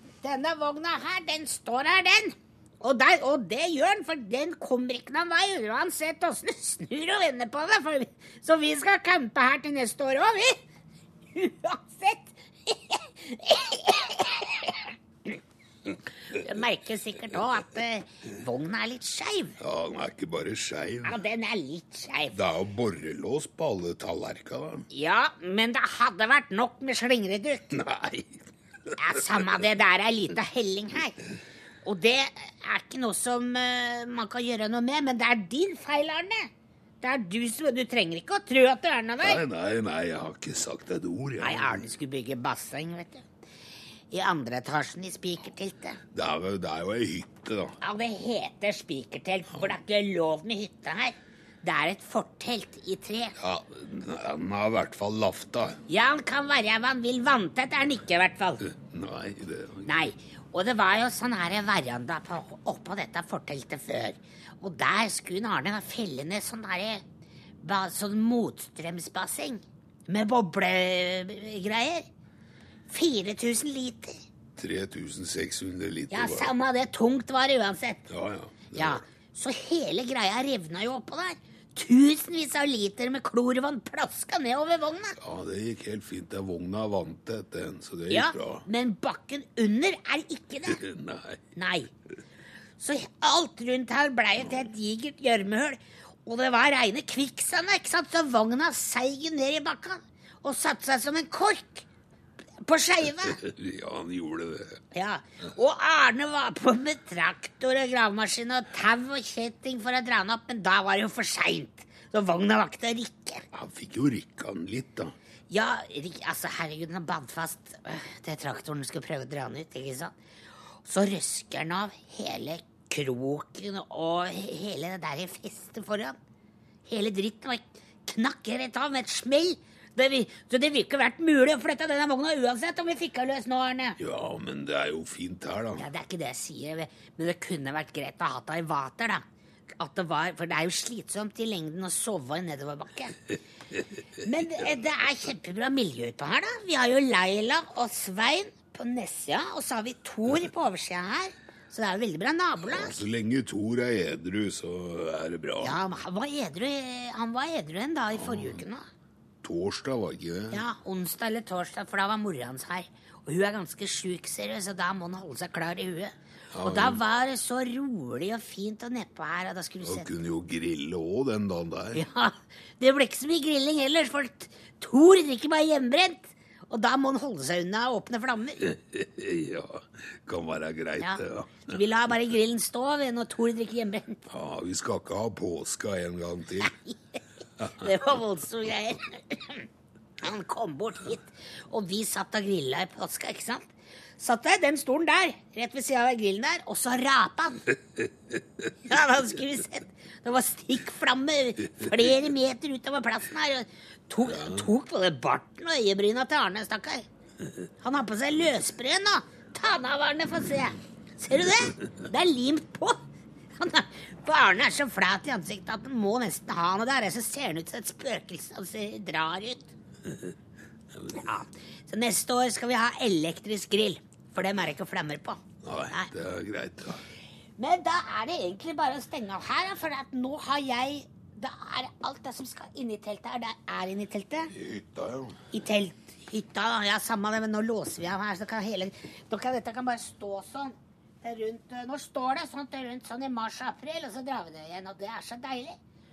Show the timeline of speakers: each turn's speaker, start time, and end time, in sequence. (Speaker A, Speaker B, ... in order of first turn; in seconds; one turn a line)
Speaker A: 0.2-10.6
Speaker A: 11.3-15.4
Speaker A: 16.3-19.6
Speaker B: 19.6-21.2
Speaker A: 21.1-22.4
Speaker B: 22.3-24.9
Speaker A: 24.9-27.8
Speaker B: 27.7-29.6
Speaker A: 29.0-31.2
Speaker A: 31.8-36.5
Speaker A: 37.0-39.4
Speaker B: 39.2-41.9
Speaker A: 41.4-43.2
Speaker A: 44.1-46.0
Speaker B: 46.1-47.8
Speaker A: 47.8-53.4
Speaker B: 53.4-55.8
Speaker A: 55.9-58.7
Speaker B: 58.7-60.0
Speaker A: 59.9-67.0
Speaker A: 67.6-72.1
Speaker A: 72.9-74.2
Speaker B: 74.6-76.5
Speaker A: 76.1-78.1
Speaker B: 78.1-79.0
Speaker A: 78.8-85.2
Speaker B: 85.2-88.7
Speaker A: 88.1-90.8
Speaker B: 90.7-91.4
Speaker A: 91.6-91.9
Speaker A: 92.8-101.9
Speaker A: 102.6-103.4
Speaker B: 103.3-104.8
Speaker A: 104.9-113.4
Speaker B: 113.5-115.1
Speaker A: 115.5-120.1
Speaker A: 120.8-126.2
Speaker A: 126.9-134.0
Speaker B: 134.0-135.9
Speaker A: 135.8-139.2
Speaker A: 139.8-143.2
Speaker A: 144.2-153.0
Speaker B: 152.7-155.8
Speaker A: 155.6-158.8
Speaker B: 158.2-158.6
Speaker B: 159.4-160.6
Speaker A: 160.5-170.1
Speaker B: 166.5-167.0
Speaker B: 169.8-172.0
Speaker A: 171.9-178.6
Speaker B: 178.6-181.7
Speaker A: 181.0-184.2
Speaker B: 184.3-186.7
Speaker A: 187.7-189.7
Speaker A: 190.2-197.7
Speaker A: 198.9-207.1
Speaker A: 207.8-213.0
Speaker A: 213.6-219.7
Speaker A: 221.2-226.1
Speaker B: 225.6-227.0
Speaker A: 227.6-234.5
Speaker B: 234.5-235.4
Speaker A: 235.5-245.8